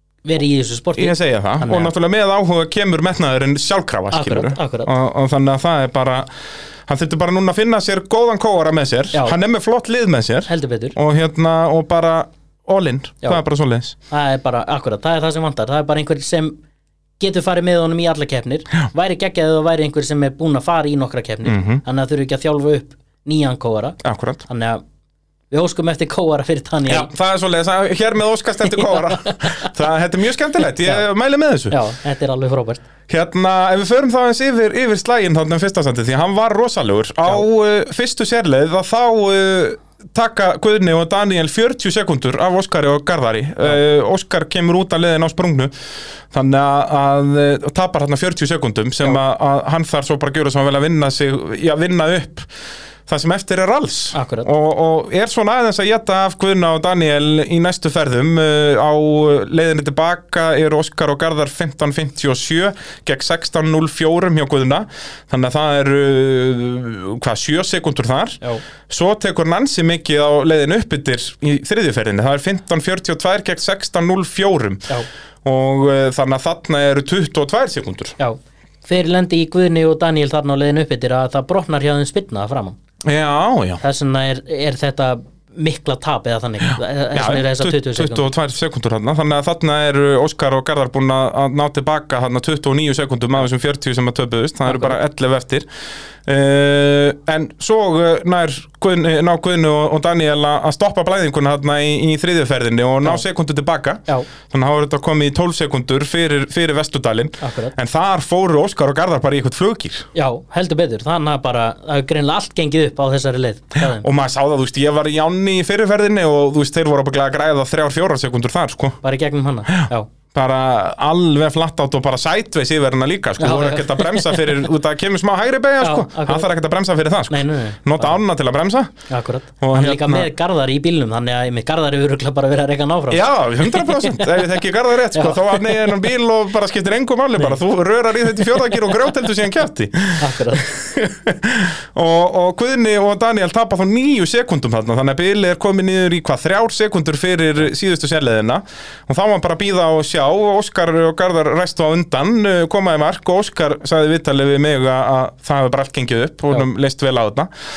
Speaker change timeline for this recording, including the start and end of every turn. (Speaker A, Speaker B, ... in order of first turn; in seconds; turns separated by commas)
Speaker A: 0.2-1.9, Speaker B: 1.0-6.3, Speaker A: 4.1-4.9, Speaker B: 6.9-14.0, Speaker A: 10.5-11.0, Speaker A: 14.1-16.6, Speaker A: 17.2-24.8, Speaker B: 21.5-21.8, Speaker B: 24.0-24.4, Speaker A: 25.5-27.1, Speaker B: 26.9-31.8, Speaker A: 28.6-29.7, Speaker A: 30.6-31.0, Speaker A: 31.7-32.8, Speaker B: 33.1-45.7, Speaker B: 46.3-52.5, Speaker B: 53.1-74.9, Speaker A: 54.1-54.5, Speaker B: 75.4-78.2, Speaker A: 78.2-82.8, Speaker B: 83.0-83.8, Speaker A: 83.8-88.3, Speaker B: 87.1-95.7, Speaker A: 94.7-95.0, Speaker B: 96.2-110.1, Speaker A: 107.4-107.8, Speaker A: 110.2-114.1, Speaker B: 113.8-119.0, Speaker A: 119.0-120.1, Speaker B: 119.8-128.9, Speaker A: 123.4-124.6, Speaker A: 125.8-126.5, Speaker A: 127.3-128.2, Speaker A: 129.1-134.5, Speaker B: 129.6-130.3, Speaker B: 133.1-157.5, Speaker A: 135.1-135.9, Speaker A: 138.4-138.9, Speaker A: 140.2-140.7